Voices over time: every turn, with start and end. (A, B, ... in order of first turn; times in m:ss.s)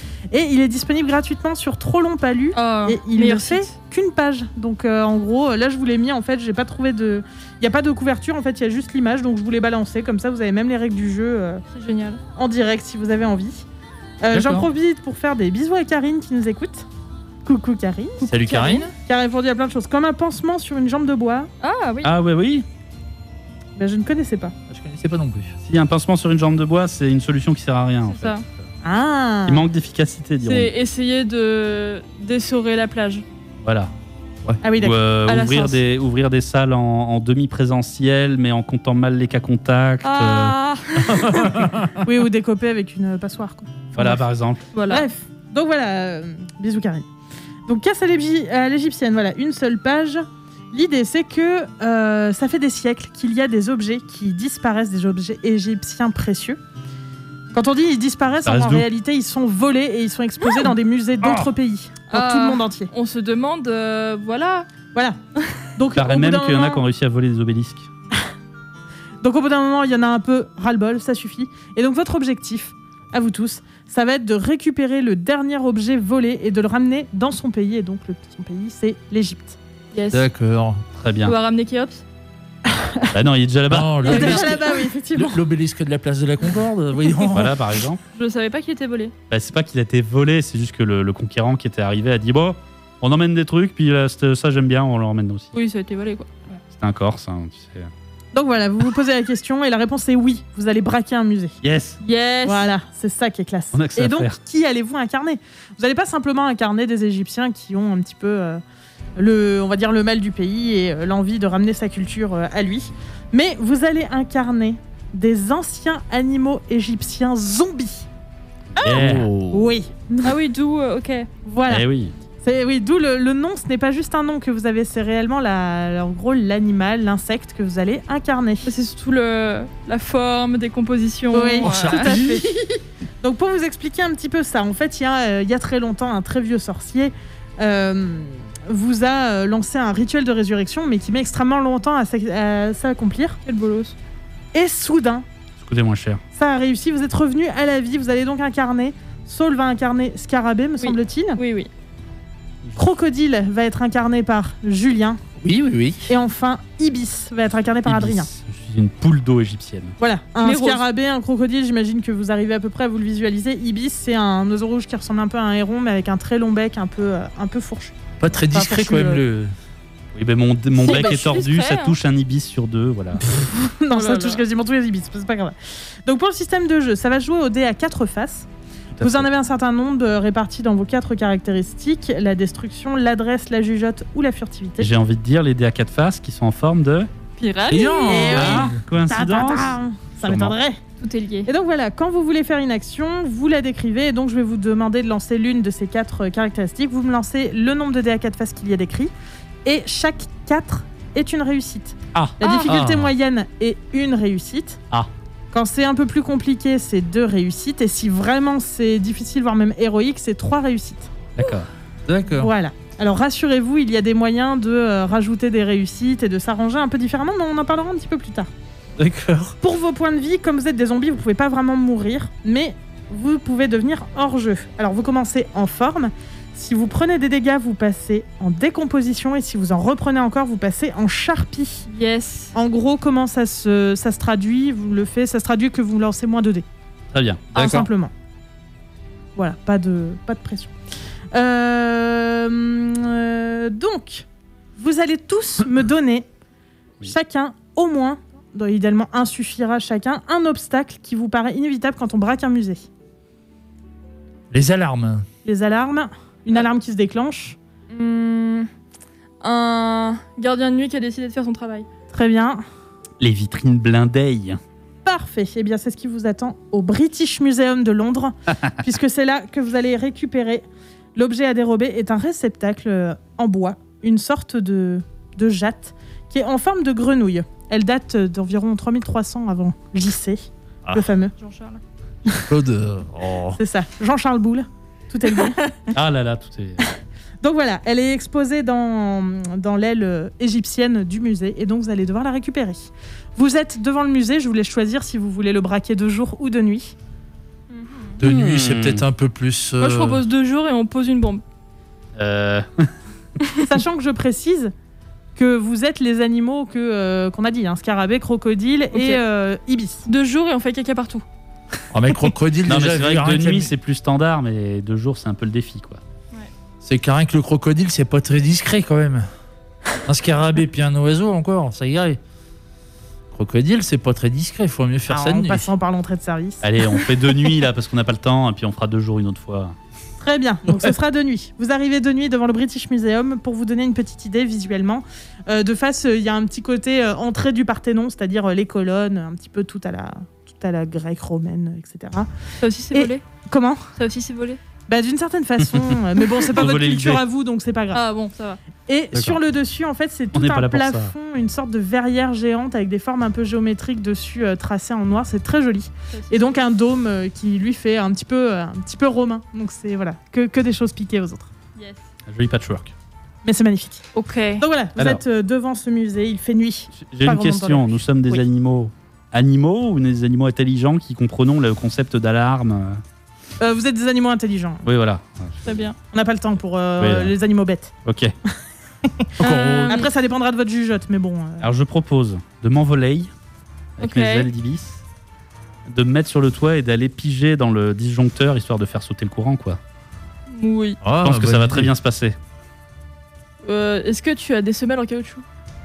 0:00.3-0:11.6 A
0:02.5-0:03.7 B
0:11.7-0:12.2 B
0:12.4-0:13.6 A
0:14.2-0:16.9 A
0:14.3-0:14.7 C
0:17.4-0:18.4 A
0:18.3-0:18.9 C
0:18.5-0:18.9 B
0:19.0-0:21.5 A
0:21.6-0:22.1 B
0:22.0-0:22.7 D
0:23.8-0:24.5 A
0:24.7-0:25.6 C
0:25.6-0:28.5 D
0:28.0-0:28.4 B
0:28.8-0:29.7 A
0:29.5-0:30.7 D
0:30.4-0:33.2 B
0:33.6-0:33.9 D
0:34.6-0:35.0 A
0:34.8-0:40.6 D
0:35.3-0:35.8 B
0:40.0-0:41.3 B
0:41.1-0:42.0 C
0:42.0-0:44.2 A
0:43.9-0:44.7 D
0:44.7-0:45.1 B
0:44.9-0:47.1 A
0:47.7-0:56.6 A
0:57.5-1:02.9 A
0:58.4-0:58.9 D
1:01.2-1:01.5 D
1:02.1-1:04.7 B
1:05.8-1:06.8 A
1:05.9-1:07.9 D
1:09.2-1:19.6 A
1:19.9-1:20.2 B
1:20.1-1:20.8 C
1:21.0-1:21.4 D
1:21.2-1:22.0 B
1:22.7-1:23.1 A
1:23.1-1:24.4 D
1:23.7-1:27.6 C
1:24.1-1:25.4 A
1:24.2-1:24.4 B
1:27.3-1:28.0 D
1:28.1-1:29.1 B
1:29.3-1:35.5 D
1:35.5-1:36.3 B
1:36.7-1:37.9 D
1:38.3-1:41.6 A
1:41.6-1:42.0 D
1:42.0-1:42.7 B
1:42.4-1:48.6 A
1:43.7-1:44.4 D
1:49.2-1:58.1 A
1:58.8-1:59.3 D
1:58.8-1:59.7 C
1:59.5-2:00.4 A
2:00.2-2:01.3 B
2:01.5-2:01.8 A
2:01.7-2:02.2 D
2:02.4-2:08.7 A
2:08.6-2:12.2 B
2:11.3-2:23.4 A
2:23.5-2:24.0 B
2:24.5-2:25.2 A
2:25.6-2:26.2 D
2:26.3-2:31.4 A
2:30.8-2:31.7 B
2:32.8-2:35.2 A
2:35.4-2:36.1 C
2:36.1-2:38.3 A
2:37.9-2:40.0 D
2:40.0-2:48.0 A
2:40.4-2:40.8 B
2:48.2-2:49.5 C
2:48.5-2:49.2 A
2:50.2-2:53.2 D
2:50.8-2:52.0 B
2:50.9-2:51.2 A
2:53.2-2:55.6 A
2:53.9-2:54.4 B
2:56.1-2:58.5 A
2:58.9-2:59.3 D
2:59.0-3:04.9 A
3:04.8-3:07.1 D
3:07.4-3:08.5 B
3:07.7-3:08.7 C
3:08.1-3:10.8 A
3:08.3-3:10.6 D
3:11.0-3:11.5 B
3:11.5-3:19.1 A
3:19.6-3:24.8 A
3:22.1-3:23.1 D
3:22.4-3:22.7 B
3:25.5-3:31.1 A
3:31.4-3:31.7 D
3:32.1-3:32.5 C
3:32.3-3:38.5 A
3:39.0-3:39.6 C
3:39.6-3:51.9 A
3:51.9-3:52.5 B
3:52.6-3:56.7 A
3:57.1-3:57.8 D
3:57.5-3:58.1 A
3:57.6-3:57.9 C
3:59.4-4:00.7 A
4:01.3-4:04.3 A
4:04.8-4:06.3 A
4:07.0-4:12.8 A
4:14.5-4:15.3 C
4:15.4-4:17.6 A
4:17.9-4:18.7 B
4:19.4-4:21.9 B
4:22.1-4:22.6 A
4:23.2-4:24.6 D
4:25.0-4:30.6 A
4:28.5-4:28.8 D
4:31.2-4:41.3 A
4:41.4-4:41.8 B
4:42.5-4:43.6 C
4:43.6-4:45.7 A
4:45.9-4:46.8 D
4:47.4-4:56.9 A
4:57.7-4:58.1 B
4:58.2-5:00.2 C
4:58.2-4:59.1 D
4:59.8-5:01.4 B
5:02.2-5:02.9 D
5:03.6-5:04.7 A
5:05.4-5:10.0 A
5:08.9-5:09.2 B
5:10.1-5:11.2 B
5:11.9-5:13.7 C
5:12.7-5:16.0 D
5:16.8-5:19.3 C
5:20.1-5:22.2 C
5:23.3-5:25.7 C
5:25.1-5:26.7 A
5:26.6-5:29.8 D
5:30.2-5:42.3 A
5:42.6-5:43.2 B
5:42.9-5:43.9 A
5:44.0-5:44.6 B
5:44.9-5:48.0 A
5:45.7-5:47.2 D
5:47.9-5:48.6 B
5:48.9-6:01.5 A
5:50.3-5:51.1 D
5:56.1-5:56.4 B
6:01.8-6:02.1 B
6:02.3-6:02.9 D
6:03.4-6:04.0 A
6:04.2-6:04.6 B
6:04.6-6:08.4 A
6:05.0-6:05.2 D
6:06.9-6:13.0 D
6:13.6-6:14.9 A
6:14.8-6:15.8 D
6:15.6-6:16.0 B
6:16.1-6:17.9 A
6:17.0-6:17.3 D
6:18.0-6:18.3 D
6:19.0-6:19.3 A
6:19.4-6:20.0 C
6:19.4-6:20.1 B
6:19.9-6:21.7 A
6:21.6-6:23.3 D
6:24.0-6:25.0 D
6:24.0-6:24.5 B
6:25.9-6:29.8 D
6:30.5-6:31.0 B
6:31.0-6:31.9 C
6:31.2-6:32.4 D
6:33.6-6:35.4 B